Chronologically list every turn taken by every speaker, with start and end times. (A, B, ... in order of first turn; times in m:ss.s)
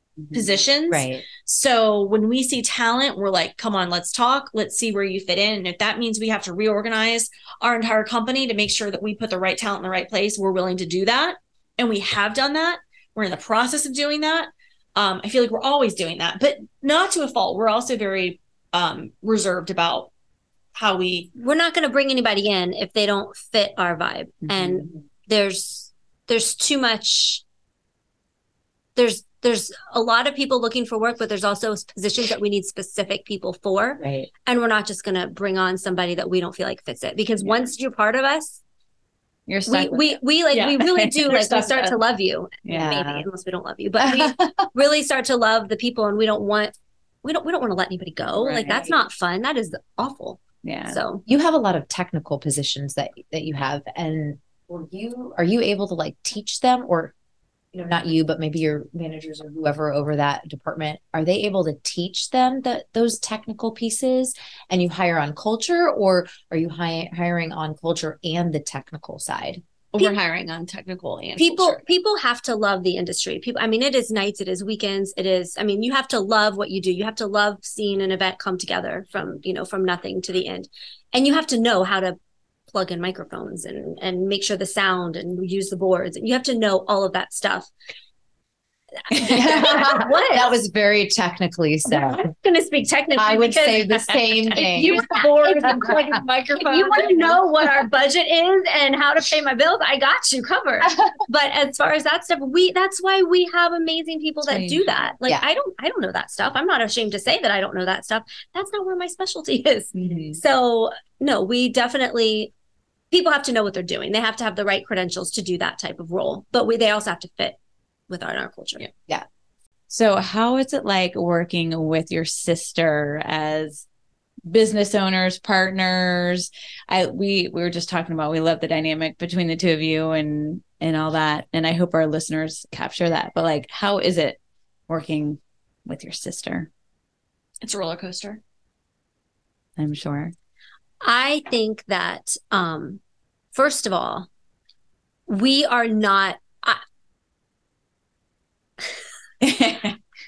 0:00.3-0:20.1 A
0:00.4-0:01.2 B
0:20.8-0:21.3 A
0:21.4-0:27.4 C
0:24.5-0:24.9 D
0:29.0-0:38.6 C
0:34.0-0:34.3 B
0:39.5-0:40.2 D
0:39.7-0:51.2 C
0:40.5-0:42.0 A
0:42.7-0:43.0 D
0:42.7-0:43.2 B
0:44.0-0:44.7 B
0:48.4-0:48.9 D
0:50.6-0:50.9 D
0:51.3-0:57.1 B
0:57.7-1:09.6 B
1:09.9-1:11.8 A
1:11.4-1:27.7 C
1:29.1-1:30.6 C
1:29.2-1:32.2 B
1:31.9-1:36.0 C
1:33.2-1:35.0 B
1:34.7-1:37.4 A
1:36.6-1:52.5 C
1:44.5-1:45.1 D
1:50.0-1:50.4 D
1:53.1-1:57.6 C
1:58.1-1:58.9 C
1:59.9-2:03.8 D
2:04.5-2:14.4 D
2:14.9-2:16.7 D
2:17.6-2:18.4 A
2:19.8-2:20.3 D
2:21.0-2:23.0 C
2:23.5-2:24.3 C
2:25.3-2:26.8 C
2:29.4-2:30.0 D